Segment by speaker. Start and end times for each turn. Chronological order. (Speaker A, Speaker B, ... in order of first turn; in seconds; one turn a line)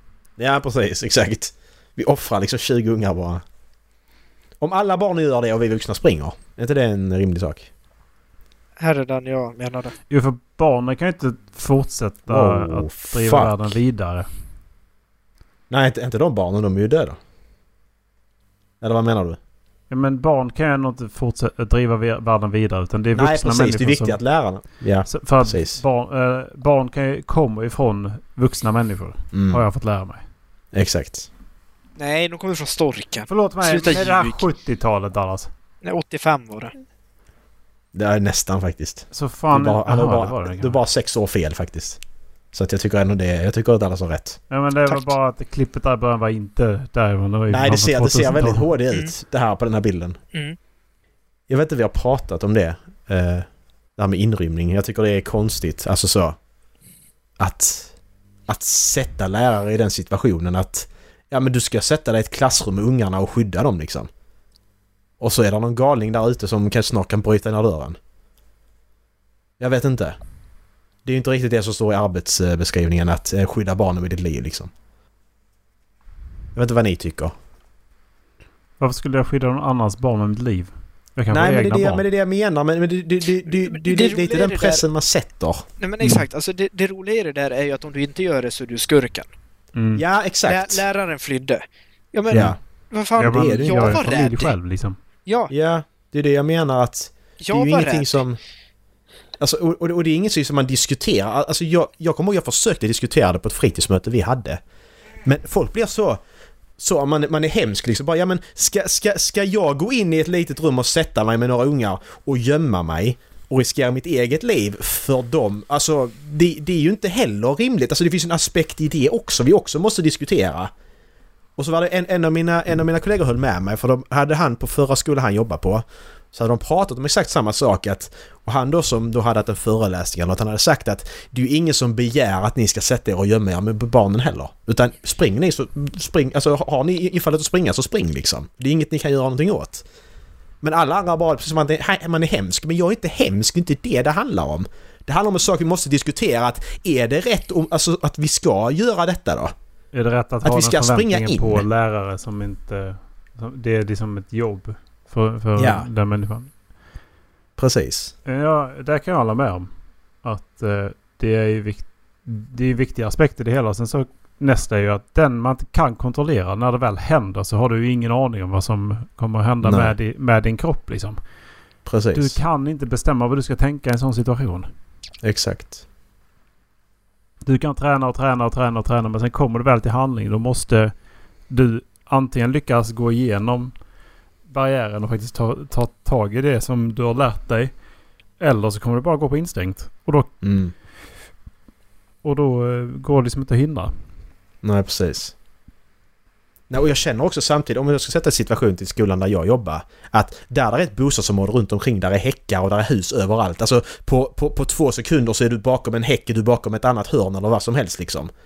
Speaker A: 0.4-3.4
Speaker A: 4.6-7.7
Speaker B: 8.8-9.9
Speaker C: 10.1-14.3
Speaker A: 12.3-13.6
Speaker A: 15.7-17.2
Speaker A: 18.8-19.4
Speaker C: 19.9-24.2
Speaker A: 23.1-25.8
Speaker C: 25.1-30.2
Speaker A: 29.3-29.6
Speaker A: 30.7-31.3
Speaker B: 32.0-34.5
Speaker C: 33.3-35.5
Speaker B: 35.8-36.7
Speaker A: 37.9-42.0
Speaker C: 39.1-40.8
Speaker A: 42.5-44.4
Speaker C: 44.5-48.7
Speaker A: 47.5-50.2
Speaker A: 51.5-56.4
Speaker A: 57.4-57.9
Speaker A: 58.5-64.1
Speaker A: 65.2-68.0
Speaker A: 69.6-70.2
Speaker A: 71.0-74.7
Speaker A: 76.5-77.3
Speaker C: 78.8-82.0
Speaker A: 81.3-85.7
Speaker B: 83.6-84.8
Speaker B: 85.8-89.3
Speaker C: 89.8-90.0
Speaker A: 90.0-90.8
Speaker B: 90.5-91.6
Speaker B: 92.1-94.5
Speaker A: 92.3-92.6
Speaker C: 93.2-95.0
Speaker A: 93.3-94.0
Speaker B: 95.3-95.5
Speaker A: 95.5-98.4
Speaker B: 97.4-98.2
Speaker A: 99.4-104.6
Speaker A: 105.2-106.2
Speaker A: 106.8-120.7
Speaker A: 121.6-139.8
Speaker A: 140.6-149.5
Speaker C: 149.9-156.5
Speaker A: 150.4-151.6
Speaker A: 155.6-155.9
Speaker A: 157.6-158.1
Speaker C: 158.3-159.7
Speaker C: 160.2-171.2
Speaker A: 169.6-169.9
Speaker A: 171.9-172.4
Speaker C: 172.1-174.7
Speaker A: 175.2-175.8
Speaker C: 177.4-180.9
Speaker C: 181.5-183.7
Speaker C: 184.5-187.7
Speaker C: 188.4-190.3
Speaker A: 190.4-190.7
Speaker C: 192.2-193.9
Speaker A: 194.6-195.3
Speaker A: 196.7-208.3